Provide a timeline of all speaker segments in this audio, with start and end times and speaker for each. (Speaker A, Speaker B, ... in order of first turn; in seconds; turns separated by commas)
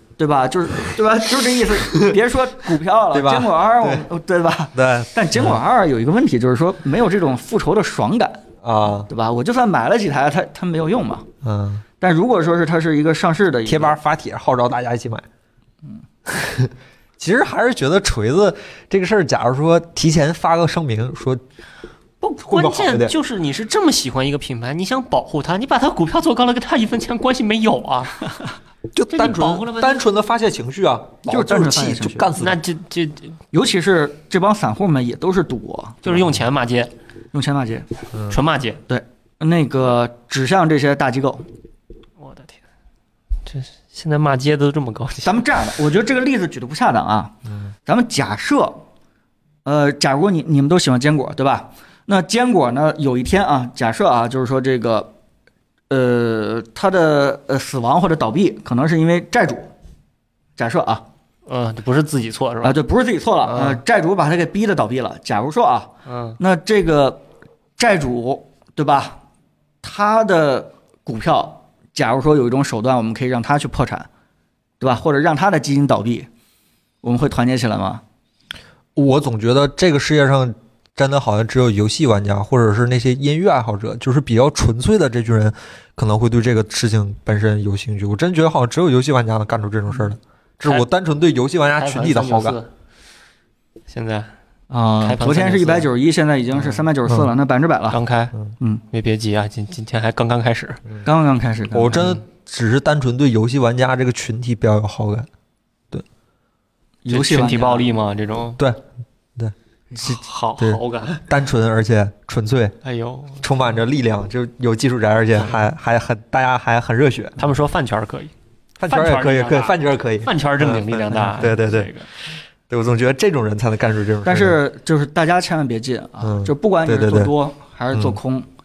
Speaker A: 0.2-8.4, Speaker B: 3.1-4.1, Speaker B: 4.8-5.6, Speaker B: 8.6-9.1, Speaker A: 9.1-11.3, Speaker B: 11.4-11.8, Speaker A: 12.0-14.0, Speaker B: 13.7-15.3, Speaker B: 16.3-21.4, Speaker C: 22.2-28.2, Speaker B: 22.5-23.1, Speaker B: 28.9-32.6, Speaker C: 29.1-30.0, Speaker A: 31.3-32.3, Speaker C: 32.4-33.4, Speaker A: 33.5-36.0, Speaker C: 36.0-36.9, Speaker A: 37.3-37.9, Speaker C: 38.3-38.8, Speaker A: 38.9-41.5, Speaker C: 42.2-42.6, Speaker C: 43.5-45.5, Speaker A: 45.2-48.9, Speaker A: 49.6-55.1, Speaker A: 55.9-59.7, Speaker A: 60.6-61.0, Speaker C: 61.5-62.8, Speaker A: 62.6-67.2, Speaker C: 63.4-63.8, Speaker C: 66.1-66.4, Speaker A: 67.8-69.2, Speaker A: 69.8-74.1, Speaker A: 74.8-76.3, Speaker A: 77.0-78.0, Speaker B: 79.0-92.6, Speaker C: 91.8-92.7, Speaker C: 93.9-94.3, Speaker A: 94.7-98.0, Speaker C: 95.0-95.9, Speaker C: 97.9-98.3, Speaker C: 98.9-100.8, Speaker A: 101.0-102.2, Speaker B: 101.7-105.3, Speaker A: 107.0-107.9, Speaker C: 107.1-108.6, Speaker B: 108.6-108.8, Speaker B: 109.4-112.8, Speaker C: 110.0-111.2, Speaker C: 112.8-113.5, Speaker B: 113.4-117.4, Speaker C: 117.4-118.3, Speaker B: 118.8-121.9, Speaker C: 118.9-122.1, Speaker B: 122.7-124.6, Speaker A: 124.2-128.5, Speaker B: 126.2-127.3, Speaker B: 127.9-128.2